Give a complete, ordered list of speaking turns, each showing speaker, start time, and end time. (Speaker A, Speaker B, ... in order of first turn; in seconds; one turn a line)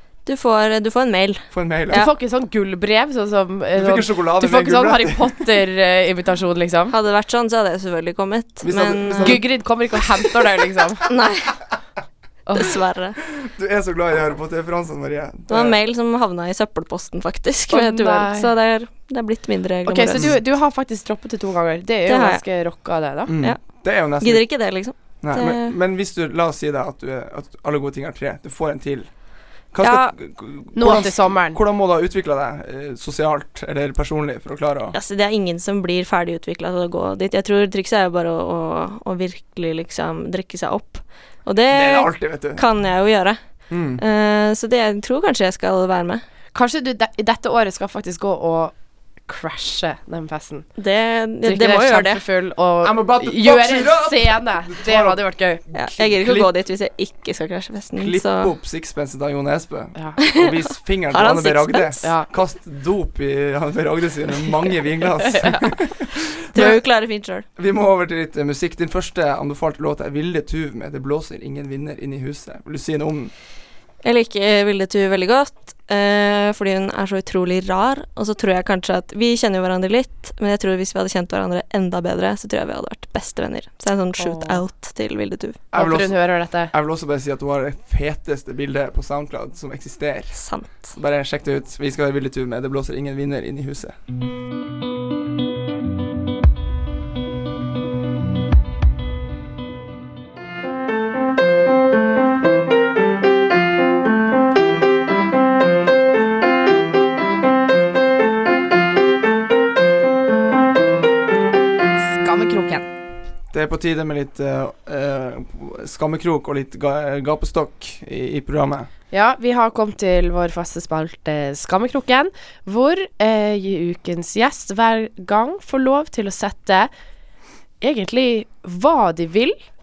Speaker A: 0.3-2.1
Speaker B: 1.5-2.0
Speaker C: 1.9-6.9
Speaker B: 3.8-5.5
Speaker A: 6.9-9.4
Speaker B: 8.6-9.7
Speaker C: 9.2-11.1
Speaker A: 11.1-11.6
Speaker C: 12.5-12.7
Speaker A: 12.6-13.2
Speaker B: 13.3-15.8
Speaker A: 15.5-20.4
Speaker C: 17.7-18.5
Speaker C: 19.9-23.3
Speaker A: 22.1-22.4
Speaker B: 23.3-24.5
Speaker A: 23.4-25.7
Speaker B: 25.2-29.1
Speaker B: 29.7-35.0
Speaker A: 29.8-30.1
Speaker C: 30.8-31.6
Speaker A: 34.9-43.4
Speaker B: 41.7-42.6
Speaker B: 43.7-44.0
Speaker A: 44.0-46.2
Speaker C: 46.5-48.7
Speaker C: 49.2-50.7
Speaker A: 50.8-52.2
Speaker C: 51.4-55.6
Speaker B: 52.8-56.5
Speaker A: 55.7-58.5
Speaker B: 58.0-66.8
Speaker A: 60.2-60.6
Speaker A: 61.1-62.1
Speaker C: 62.0-62.3
Speaker A: 66.5-67.5
Speaker B: 67.6-73.3
Speaker A: 74.0-85.6
Speaker C: 84.2-84.6
Speaker B: 85.7-94.0
Speaker C: 85.7-86.7
Speaker A: 90.3-90.9
Speaker C: 112.0-112.9
Speaker B: 113.5-118.9
Speaker C: 119.1-126.9
Speaker C: 127.8-129.6